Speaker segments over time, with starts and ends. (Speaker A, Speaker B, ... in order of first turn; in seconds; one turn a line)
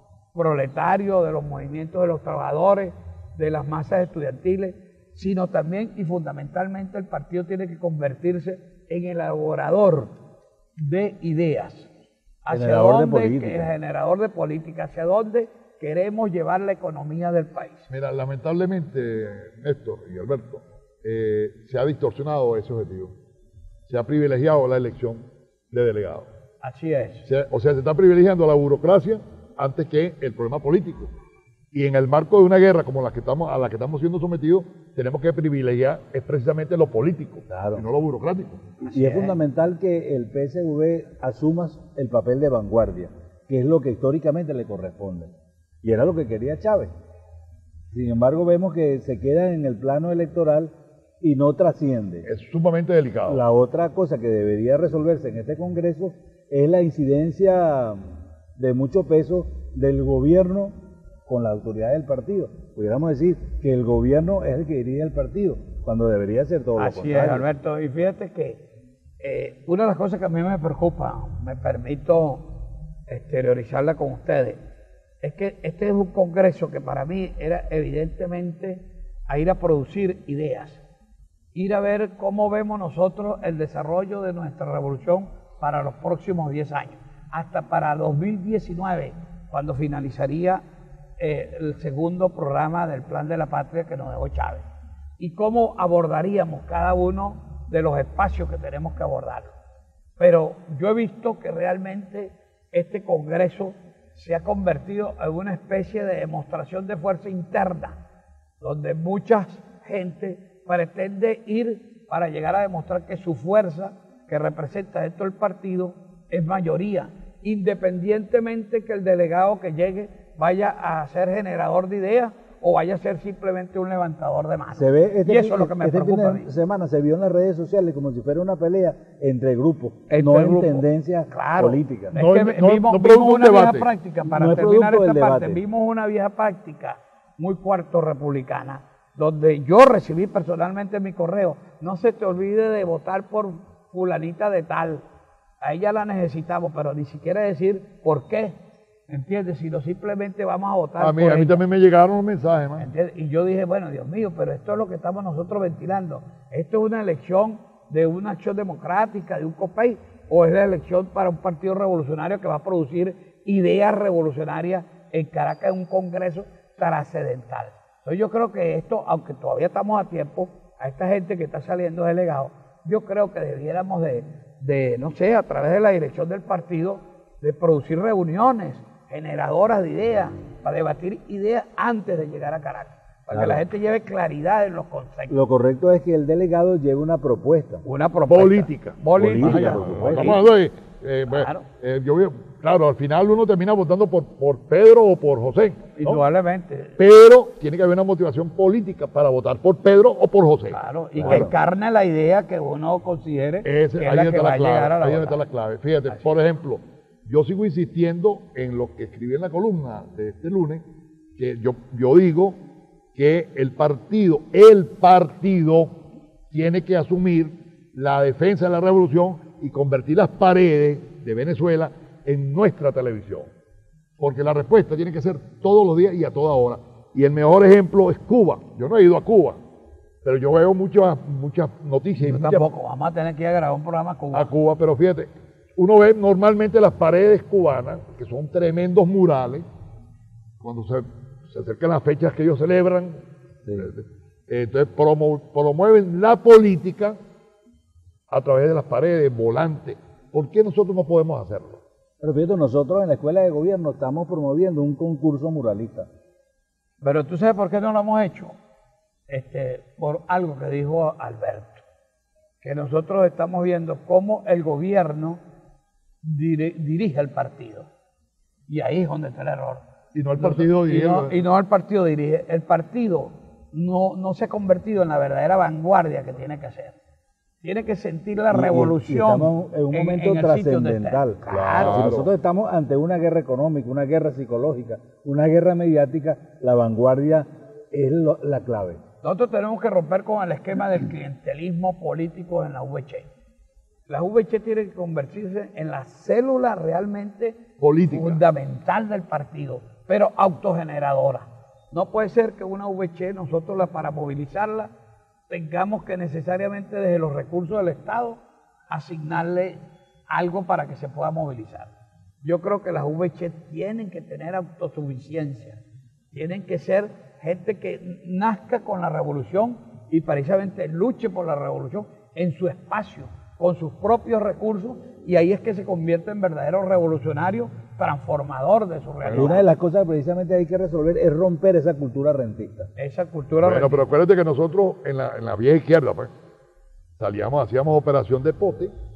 Speaker A: 0.3-10.1
Speaker A: 10.8-11.9
Speaker A: 12.4-17.9
Speaker B: 12.5-13.7
Speaker C: 17.9-23.1
Speaker C: 23.9-26.3
Speaker A: 26.6-27.2
Speaker C: 27.3-31.1
Speaker C: 31.7-38.7
Speaker B: 37.5-37.9
Speaker A: 38.8-39.4
Speaker B: 38.9-45.3
Speaker B: 45.8-46.9
Speaker B: 47.9-52.3
Speaker C: 52.2-53.4
Speaker B: 53.3-60.7
Speaker B: 61.3-67.5
Speaker A: 66.8-68.6
Speaker A: 69.2-72.5
Speaker A: 73.1-74.6
Speaker A: 75.2-80.8
Speaker A: 81.5-90.6
Speaker A: 91.2-94.7
Speaker A: 95.2-99.5
Speaker A: 100.2-108.0
Speaker A: 108.6-126.5
Speaker B: 124.8-132.2
Speaker A: 130.1-145.1
Speaker C: 132.2-133.9
Speaker B: 134.2-135.6
Speaker A: 145.6-148.6
Speaker A: 149.1-151.6
Speaker C: 151.0-152.9
Speaker A: 152.8-185.4
Speaker B: 183.3-183.7
Speaker B: 185.3-187.8
Speaker A: 187.8-190.5
Speaker C: 188.3-196.2
Speaker B: 189.2-190.4
Speaker A: 191.3-191.7
Speaker A: 196.0-197.0
Speaker C: 197.0-201.3
Speaker A: 200.7-205.4
Speaker B: 201.2-201.5
Speaker C: 203.6-210.8
Speaker C: 211.4-212.6
Speaker C: 213.2-216.0
Speaker C: 216.5-223.5
Speaker C: 224.2-229.6
Speaker C: 230.2-232.7
Speaker A: 232.2-234.5
Speaker C: 234.3-239.7
Speaker C: 240.6-243.2
Speaker B: 243.7-243.9
Speaker C: 243.8-247.2
Speaker C: 248.3-251.8
Speaker B: 252.2-256.1
Speaker A: 257.0-258.6
Speaker A: 259.3-261.8
Speaker A: 262.6-265.4
Speaker A: 266.2-267.9
Speaker A: 268.7-269.8
Speaker C: 270.1-271.4
Speaker A: 270.4-277.0
Speaker A: 277.6-282.2
Speaker B: 278.5-289.0
Speaker C: 281.5-282.3
Speaker A: 289.2-293.3
Speaker A: 294.1-304.9
Speaker C: 297.8-298.4
Speaker A: 305.5-315.8
Speaker A: 316.3-329.7
Speaker C: 329.2-329.5
Speaker B: 329.3-332.9
Speaker A: 333.0-334.1
Speaker C: 333.6-336.3
Speaker C: 337.2-338.9